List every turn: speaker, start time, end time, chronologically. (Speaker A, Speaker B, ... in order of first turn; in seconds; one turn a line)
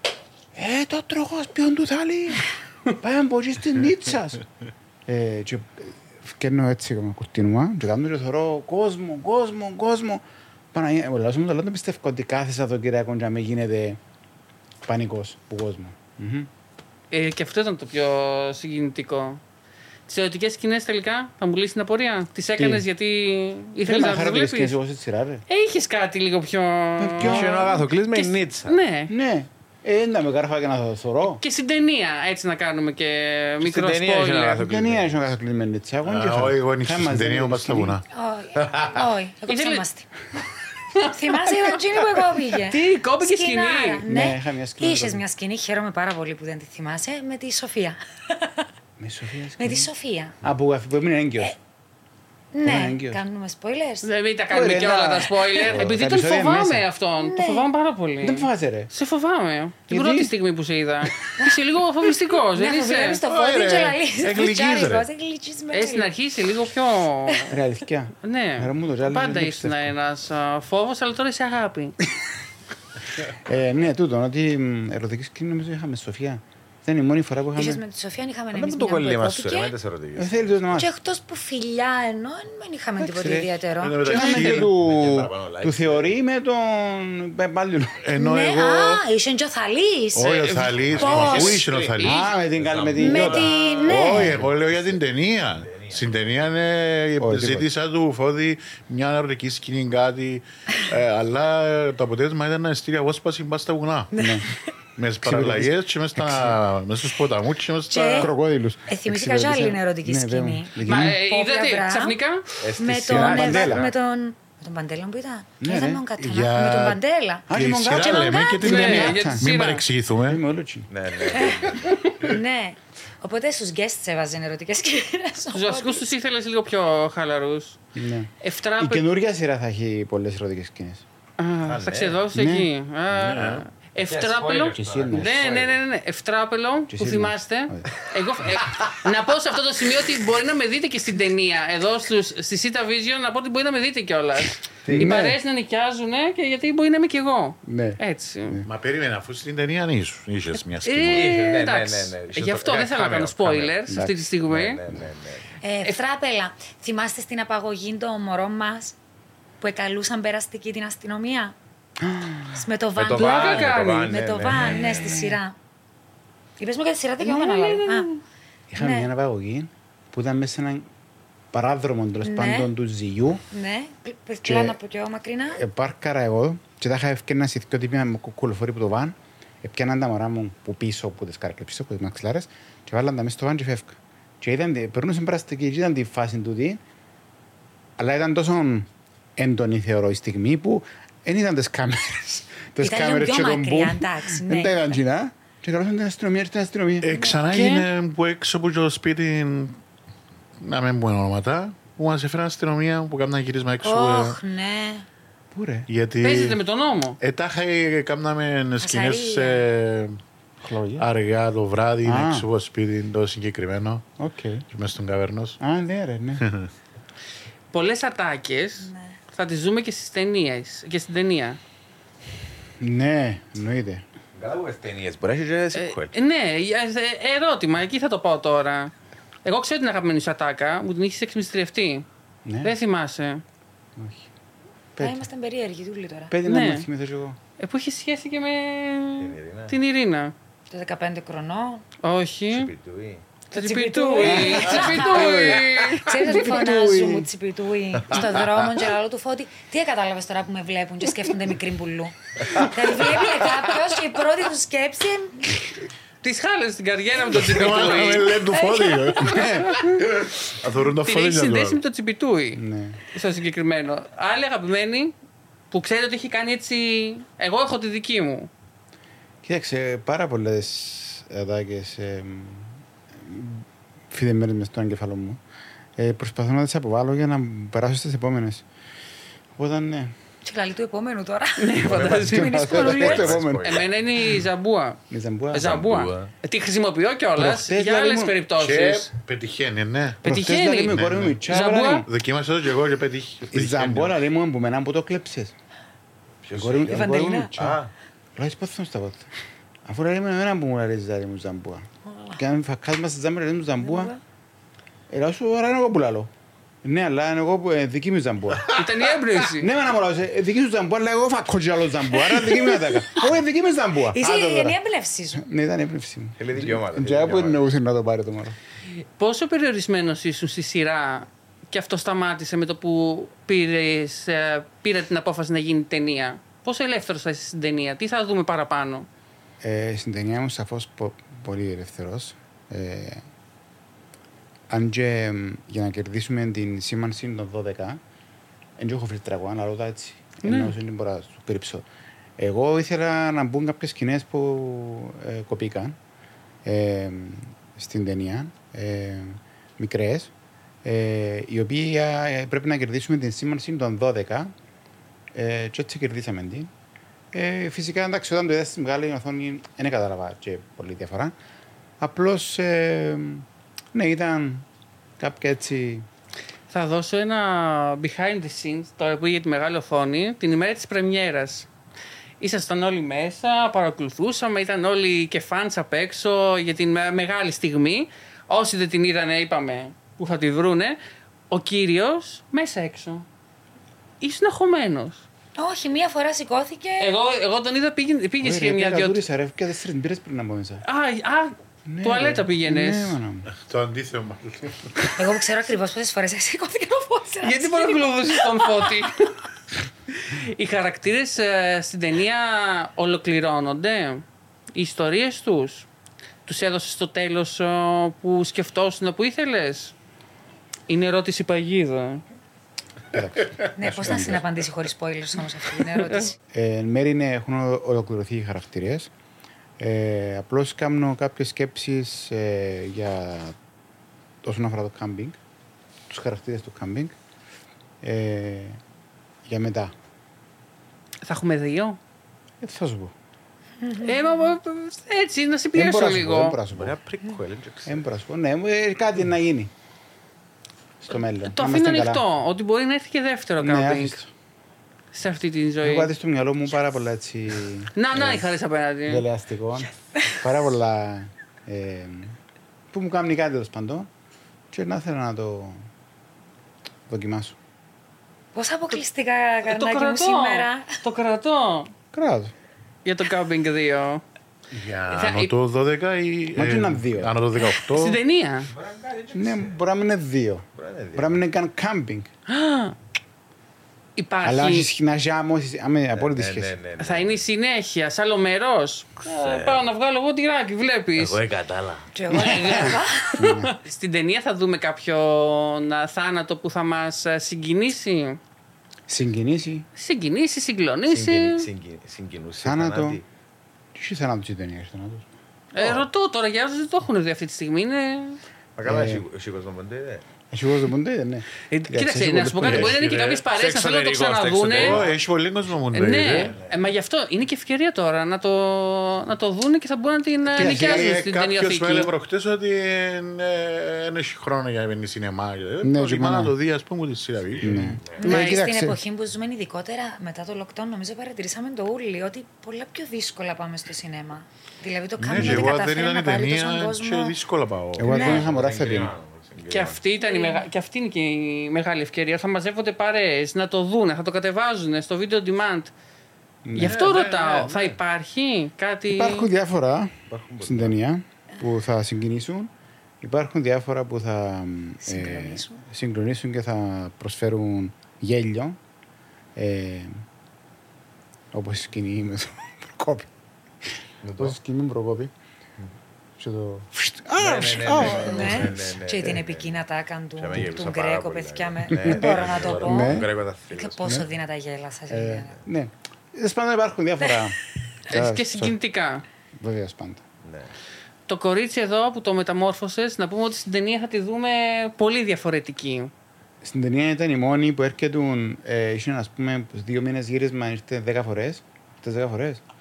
Speaker A: 0.6-4.4
Speaker A: 5.1-14.0
Speaker A: 14.8-16.5
Speaker B: 17.1-19.4
Speaker B: 20.1-24.8
Speaker A: 22.6-22.9
Speaker A: 23.8-25.4
Speaker B: 25.5-29.1
Speaker A: 27.0-27.8
Speaker C: 27.2-28.8
Speaker A: 29.1-31.4
Speaker B: 31.4-34.6
Speaker C: 33.6-35.2
Speaker A: 34.6-38.0
Speaker D: 36.0-38.0
Speaker E: 38.1-40.1
Speaker B: 39.5-39.8
Speaker B: 40.9-41.7
Speaker E: 41.0-48.7
Speaker B: 42.6-44.0
Speaker A: 44.0-45.2
Speaker A: 49.0-49.9
Speaker E: 49.6-50.4
Speaker A: 50.4-51.5
Speaker E: 52.5-54.1
Speaker A: 52.6-53.2
Speaker B: 54.0-63.2
Speaker A: 54.5-56.9
Speaker E: 57.2-57.7
Speaker A: 58.2-58.9
Speaker A: 59.9-60.3
Speaker E: 62.5-66.1
Speaker D: 63.2-65.1
Speaker B: 65.7-67.5
Speaker A: 67.5-69.9
Speaker B: 68.2-72.0
Speaker A: 73.4-77.8
Speaker E: 77.6-79.7
Speaker C: 78.5-80.8
Speaker A: 80.2-80.9
Speaker E: 80.8-84.7
Speaker A: 83.0-88.0
Speaker D: 83.8-84.7
Speaker C: 84.7-86.2
Speaker D: 88.0-89.0
Speaker E: 88.2-91.6
Speaker D: 90.1-92.2
Speaker B: 90.3-90.7
Speaker C: 90.8-92.0
Speaker B: 92.0-92.3
Speaker A: 92.0-94.5
Speaker C: 92.5-96.1
Speaker E: 93.0-94.4
Speaker D: 93.9-104.1
Speaker A: 97.2-97.7
Speaker E: 104.1-104.6
Speaker A: 104.2-104.5
Speaker D: 105.0-108.3
Speaker A: 105.2-106.6
Speaker E: 107.9-108.3
Speaker A: 108.2-111.2
Speaker E: 108.9-112.2
Speaker B: 110.8-112.5
Speaker C: 112.6-114.0
Speaker E: 112.8-119.0
Speaker A: 112.9-113.9
Speaker A: 115.6-116.0
Speaker D: 116.2-117.0
Speaker A: 117.5-119.5
Speaker D: 117.5-120.4
Speaker B: 118.6-119.8
Speaker A: 120.3-120.9
Speaker C: 120.9-122.0
Speaker E: 121.3-126.0
Speaker B: 125.5-127.8
Speaker A: 128.0-131.1
Speaker B: 128.4-129.0
Speaker B: 131.4-148.6
Speaker C: 131.7-132.2
Speaker A: 132.3-132.7
Speaker D: 133.1-133.7
Speaker C: 134.0-135.8
Speaker A: 134.8-135.4
Speaker A: 136.9-137.9
Speaker C: 144.9-145.2
Speaker A: 144.9-145.4
Speaker A: 147.6-148.7
Speaker D: 148.7-151.3
Speaker B: 150.8-154.8
Speaker C: 151.1-153.8
Speaker A: 153.9-154.3
Speaker C: 154.5-155.5
Speaker E: 155.6-159.0
Speaker E: 159.6-161.6
Speaker A: 162.0-162.7
Speaker E: 162.5-165.6
Speaker C: 162.9-165.3
Speaker B: 163.1-164.1
Speaker E: 166.6-168.1
Speaker B: 167.2-168.2
Speaker A: 168.7-170.9
Speaker E: 168.8-169.1
Speaker A: 171.5-173.4
Speaker E: 172.2-172.7
Speaker E: 173.5-175.6
Speaker A: 174.4-174.8
Speaker A: 175.5-186.8
Speaker A: 188.0-197.1
Speaker E: 192.8-195.0
Speaker D: 197.0-199.8
Speaker E: 197.1-197.4
Speaker B: 197.5-197.9
Speaker D: 200.6-204.4
Speaker E: 203.8-205.1
Speaker A: 205.5-205.9
Speaker D: 205.9-206.6
Speaker B: 206.2-207.2
Speaker D: 207.2-210.2
Speaker E: 208.8-209.7
Speaker A: 210.6-211.1
Speaker D: 211.0-214.1
Speaker A: 212.1-212.5
Speaker A: 214.2-214.7
Speaker D: 214.7-215.6
Speaker A: 215.6-216.4
Speaker D: 216.4-216.7
Speaker B: 217.7-221.6
Speaker E: 218.8-219.2
Speaker A: 222.8-224.0
Speaker C: 224.3-226.1
Speaker B: 225.8-228.9
Speaker B: 229.4-232.1
Speaker A: 232.4-232.8
Speaker B: 232.6-233.4
Speaker A: 234.0-234.3
Speaker A: 235.0-235.3
Speaker E: 235.0-236.3
Speaker A: 236.3-237.4
Speaker B: 236.4-236.9
Speaker B: 237.6-240.3
Speaker C: 239.2-239.8
Speaker E: 240.7-241.8
Speaker B: 242.0-242.7
Speaker C: 242.5-243.2
Speaker B: 243.5-246.5
Speaker E: 243.5-255.6
Speaker A: 244.2-245.4
Speaker C: 244.8-245.7
Speaker A: 246.1-247.3
Speaker C: 248.1-248.6
Speaker B: 256.2-258.4
Speaker D: 257.3-261.8
Speaker E: 258.5-259.3
Speaker B: 259.3-259.8
Speaker B: 261.0-265.1
Speaker A: 262.5-263.0
Speaker B: 265.7-268.5
Speaker A: 269.4-275.4
Speaker A: 276.0-278.6
Speaker A: 279.5-280.1
Speaker E: 280.4-283.3
Speaker B: 281.6-285.0
Speaker C: 281.8-283.9
Speaker A: 282.1-283.8
Speaker A: 285.1-285.8
Speaker B: 285.5-289.1
Speaker C: 285.5-286.3
Speaker A: 287.4-288.3
Speaker D: 288.5-290.2
Speaker B: 290.2-291.0
Speaker A: 290.2-292.1
Speaker D: 290.9-291.4
Speaker B: 291.5-292.1
Speaker D: 292.1-294.2
Speaker A: 293.5-295.6
Speaker C: 296.4-297.9
Speaker A: 296.5-297.8
Speaker E: 296.9-297.5
Speaker A: 298.4-299.3
Speaker A: 299.9-304.1
Speaker E: 303.8-304.2
Speaker A: 305.1-306.3
Speaker A: 306.8-308.8
Speaker B: 308.7-309.7
Speaker A: 309.4-314.8
Speaker E: 312.3-313.2
Speaker E: 314.1-315.4
Speaker A: 315.3-318.6
Speaker C: 316.4-317.6
Speaker B: 319.0-329.1
Speaker A: 329.6-333.2
Speaker A: 334.7-338.0
Speaker A: 338.8-341.9
Speaker B: 340.4-340.8
Speaker A: 342.4-346.0
Speaker A: 346.6-350.3
Speaker A: 350.8-354.5
Speaker A: 355.3-356.7
Speaker A: 357.3-361.3
Speaker A: 362.0-364.7
Speaker A: 365.2-366.1
Speaker B: 366.7-371.7
Speaker B: 372.4-381.0
Speaker B: 381.5-383.3
Speaker B: 384.2-385.2
Speaker E: 385.6-387.1
Speaker B: 387.0-389.2
Speaker A: 388.4-390.8
Speaker B: 390.9-393.2
Speaker A: 391.9-393.5
Speaker D: 393.5-395.1
Speaker E: 395.2-398.9
Speaker B: 397.4-399.4
Speaker B: 400.1-405.9
Speaker B: 406.5-409.9
Speaker B: 410.9-412.2
Speaker A: 413.1-414.4
Speaker E: 413.8-416.4
Speaker A: 416.5-419.1
Speaker A: 419.8-423.6
Speaker A: 424.4-425.4
Speaker A: 426.1-427.1
Speaker A: 428.0-428.8
Speaker A: 429.5-429.9
Speaker B: 431.2-432.0
Speaker A: 432.6-433.1
Speaker E: 433.8-434.3
Speaker B: 434.0-436.6
Speaker A: 435.7-437.0
Speaker C: 436.7-438.1
Speaker A: 437.9-439.7
Speaker A: 441.0-442.2
Speaker B: 441.5-444.2
Speaker A: 443.6-444.3
Speaker B: 445.1-446.1
Speaker A: 445.8-448.5
Speaker B: 447.9-449.3
Speaker A: 449.1-452.4
Speaker A: 452.9-454.1
Speaker A: 454.7-455.8
Speaker A: 457.1-457.6
Speaker E: 458.6-461.0
Speaker B: 459.6-461.9
Speaker A: 462.1-462.5
Speaker B: 463.1-464.2
Speaker D: 464.7-468.2
Speaker B: 465.1-465.5
Speaker A: 466.6-467.3
Speaker B: 467.6-468.7
Speaker C: 468.7-469.8
Speaker A: 469.3-472.3
Speaker C: 470.8-471.4
Speaker B: 472.5-473.0
Speaker B: 474.2-474.9
Speaker A: 474.4-476.8
Speaker C: 476.1-477.4
Speaker B: 477.0-481.4
Speaker C: 479.3-479.9
Speaker C: 481.2-482.1
Speaker E: 482.1-483.4
Speaker B: 482.3-488.4
Speaker A: 482.4-483.7
Speaker A: 489.1-489.9
Speaker B: 490.0-491.7
Speaker C: 491.1-493.2
Speaker A: 492.6-493.2
Speaker A: 493.9-495.3
Speaker B: 495.7-498.4
Speaker C: 495.8-496.1
Speaker C: 498.8-500.2
Speaker A: 498.9-499.2
Speaker A: 500.5-503.0
Speaker B: 501.7-505.0
Speaker D: 502.6-503.6
Speaker C: 503.6-505.2
Speaker D: 504.2-506.6
Speaker B: 505.9-512.1
Speaker C: 506.4-506.9
Speaker D: 510.5-518.0
Speaker A: 510.6-511.1
Speaker A: 515.8-516.5
Speaker C: 517.5-518.4
Speaker A: 517.6-519.0
Speaker E: 518.2-527.4
Speaker B: 518.2-518.6
Speaker D: 525.2-528.2
Speaker A: 525.3-525.7
Speaker A: 528.0-529.1
Speaker E: 528.0-528.5
Speaker C: 528.1-530.0
Speaker B: 529.6-535.9
Speaker E: 530.2-530.7
Speaker A: 536.6-537.0
Speaker B: 536.8-539.5
Speaker D: 536.8-538.0
Speaker A: 539.1-548.8
Speaker C: 540.3-541.0
Speaker E: 545.0-545.8
Speaker A: 549.6-550.2
Speaker A: 551.5-553.3
Speaker C: 554.2-554.6
Speaker A: 554.4-555.3
Speaker A: 556.4-559.4
Speaker C: 557.4-559.8
Speaker E: 557.9-565.6
Speaker C: 560.4-564.2
Speaker A: 562.0-563.3
Speaker D: 562.2-563.1
Speaker A: 565.1-568.8
Speaker B: 568.1-569.2
Speaker A: 569.6-570.2
Speaker C: 570.4-570.7
Speaker B: 571.3-576.1
Speaker A: 576.6-582.6